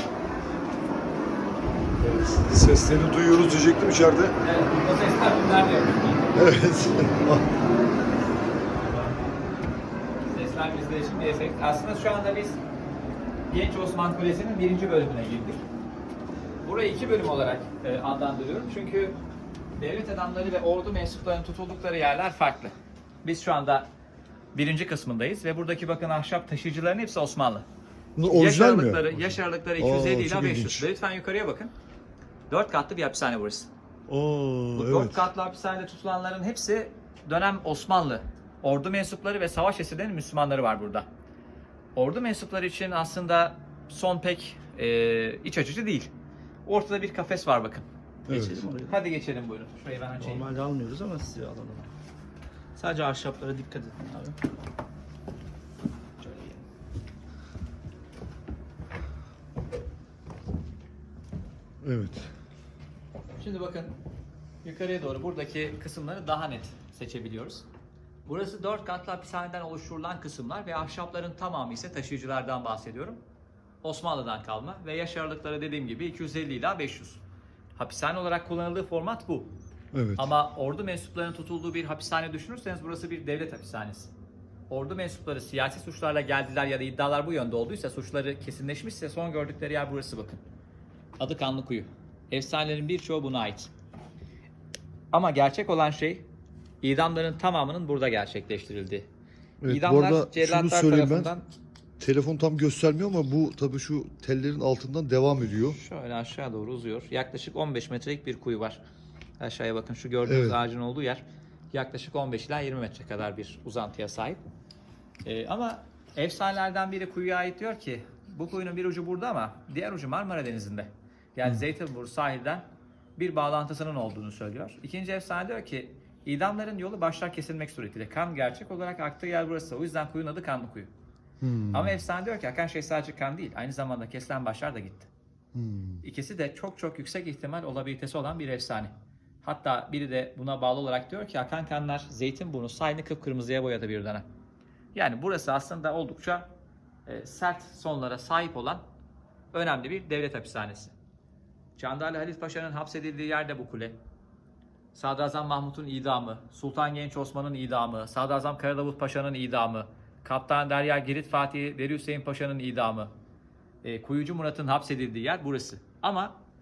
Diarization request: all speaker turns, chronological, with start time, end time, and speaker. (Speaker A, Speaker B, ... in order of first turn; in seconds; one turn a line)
Speaker A: 2.0-4.4
Speaker B: 4.4-6.3
Speaker A: 6.3-7.5
Speaker B: 10.3-12.6
Speaker B: 13.5-15.6
Speaker B: 16.6-19.1
Speaker B: 19.8-23.9
Speaker B: 24.6-27.7
Speaker A: 28.2-30.9
Speaker B: 28.3-31.7
Speaker B: 32.5-33.7
Speaker A: 34.1-35.3
Speaker B: 34.8-41.1
Speaker B: 42.0-46.1
Speaker B: 46.6-47.9
Speaker C: 48.3-49.0
Speaker A: 48.3-48.7
Speaker B: 48.9-50.5
Speaker C: 50.2-51.9
Speaker C: 52.8-54.4
Speaker C: 56.2-56.6
Speaker A: 61.8-62.3
Speaker B: 63.4-63.9
Speaker B: 64.6-67.7
Speaker B: 68.3-73.2
Speaker B: 73.8-77.2
Speaker B: 77.8-79.5
Speaker A: 79.9-80.3
Speaker B: 80.2-84.1
Speaker B: 84.7-90.4
Speaker B: 91.2-93.7
Speaker B: 95.1-96.3
Speaker B: 96.8-99.1
Speaker A: 99.6-101.3
Speaker B: 99.7-101.5
Speaker A: 102.0-105.8
Speaker B: 105.7-108.8
Speaker B: 109.4-114.4
Speaker A: 110.3-110.6
Speaker B: 115.2-122.7
Speaker B: 123.2-130.9
Speaker A: 131.4-132.0
Speaker B: 131.7-135.1
Speaker A: 135.6-136.0
Speaker B: 136.0-144.3
Speaker B: 144.9-146.5
Speaker B: 147.1-148.8
Speaker B: 149.5-150.9
Speaker B: 151.8-154.0
Speaker B: 154.9-163.1
Speaker B: 163.8-166.4